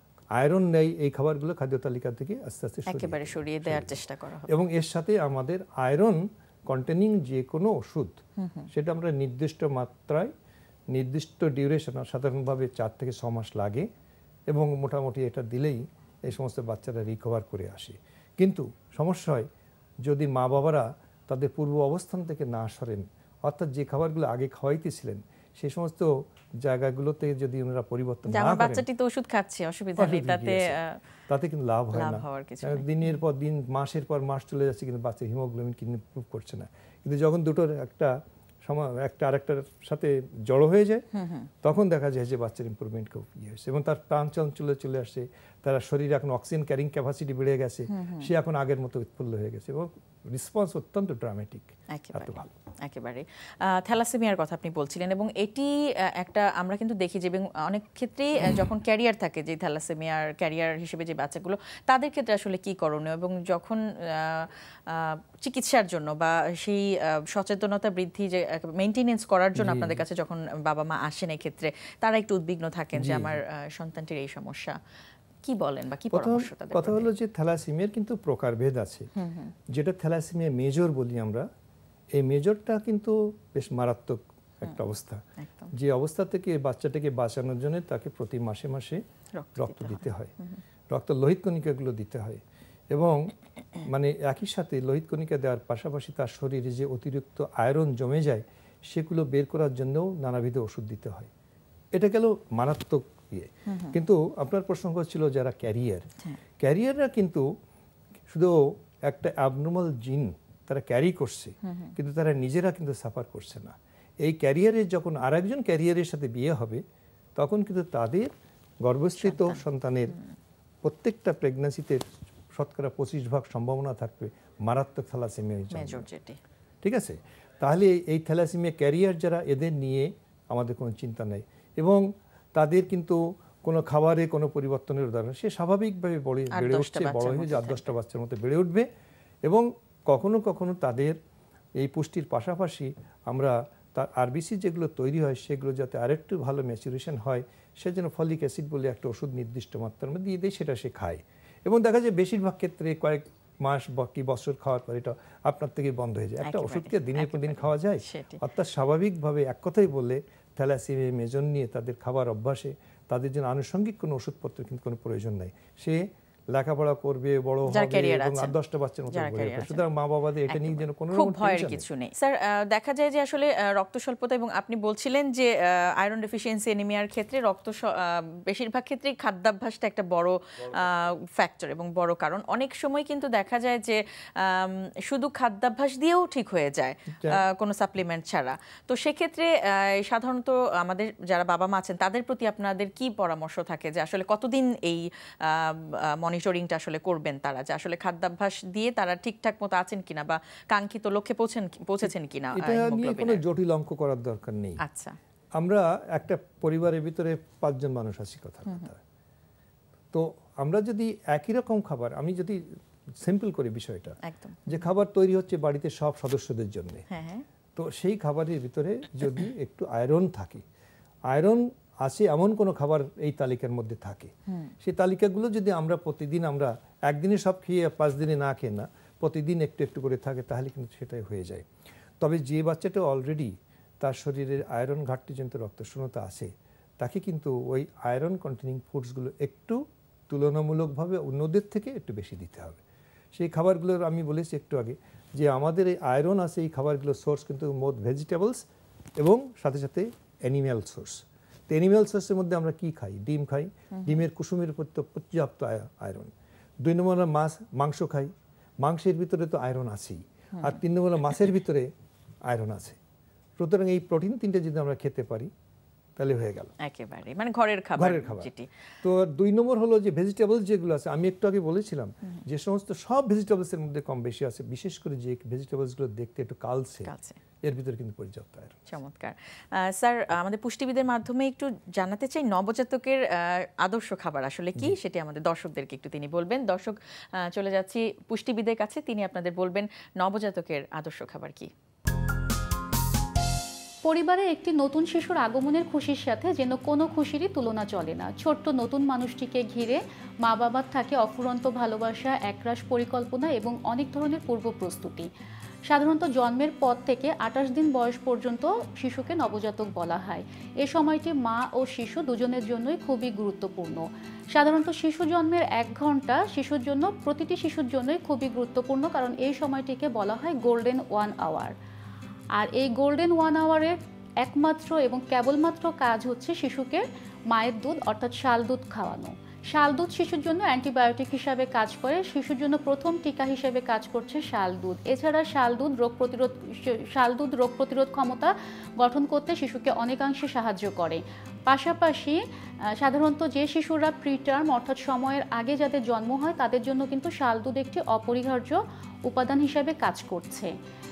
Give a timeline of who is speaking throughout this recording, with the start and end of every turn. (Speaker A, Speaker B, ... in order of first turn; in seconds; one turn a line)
Speaker A: 0.4-8.2
Speaker B: 2.9-4.5
Speaker B: 8.4-8.7
Speaker A: 8.7-10.3
Speaker A: 10.9-13.9
Speaker A: 14.5-19.5
Speaker A: 20.0-28.8
Speaker B: 28.3-31.0
Speaker A: 30.0-30.8
Speaker A: 31.3-41.0
Speaker B: 31.9-33.1
Speaker B: 41.1-41.5
Speaker A: 41.6-52.5
Speaker B: 47.9-48.3
Speaker B: 51.9-74.8
Speaker A: 69.6-70.0
Speaker A: 73.0-73.4
Speaker B: 75.5-77.1
Speaker A: 76.1-79.1
Speaker B: 79.2-79.5
Speaker A: 79.7-81.5
Speaker A: 82.1-89.0
Speaker B: 85.4-85.7
Speaker B: 89.3-90.6
Speaker A: 89.6-90.3
Speaker A: 90.9-92.4
Speaker A: 92.9-93.3
Speaker A: 93.9-101.3
Speaker A: 102.0-106.1
Speaker B: 103.7-104.0
Speaker A: 106.6-107.5
Speaker A: 108.3-116.8
Speaker B: 111.7-111.9
Speaker A: 117.4-118.3
Speaker A: 118.8-120.2
Speaker B: 119.2-119.6
Speaker A: 120.8-122.0
Speaker A: 122.5-126.1
Speaker B: 125.7-126.4
Speaker A: 126.8-138.9
Speaker B: 136.5-137.9
Speaker A: 139.5-141.2
Speaker A: 141.8-171.9
Speaker B: 156.4-158.4
Speaker B: 167.7-168.5
Speaker B: 169.1-169.8
Speaker B: 170.5-203.4
Speaker A: 202.0-204.8
Speaker B: 204.8-205.2
Speaker A: 205.6-209.0
Speaker A: 210.1-212.6
Speaker A: 213.2-214.2
Speaker B: 214.2-214.7
Speaker A: 214.7-217.0
Speaker B: 217.1-217.4
Speaker A: 217.8-220.6
Speaker A: 221.3-231.7
Speaker B: 224.5-224.7
Speaker A: 232.2-242.8
Speaker A: 243.3-248.7
Speaker A: 249.2-261.9
Speaker A: 262.5-263.0
Speaker A: 263.6-265.5
Speaker A: 266.2-266.7
Speaker B: 266.8-268.7
Speaker A: 268.0-268.5
Speaker A: 269.0-277.1
Speaker B: 277.0-277.4
Speaker A: 277.6-278.9
Speaker B: 278.9-291.7
Speaker C: 294.0-305.3
Speaker C: 305.9-321.7
Speaker C: 322.6-342.4
Speaker C: 343.0-350.8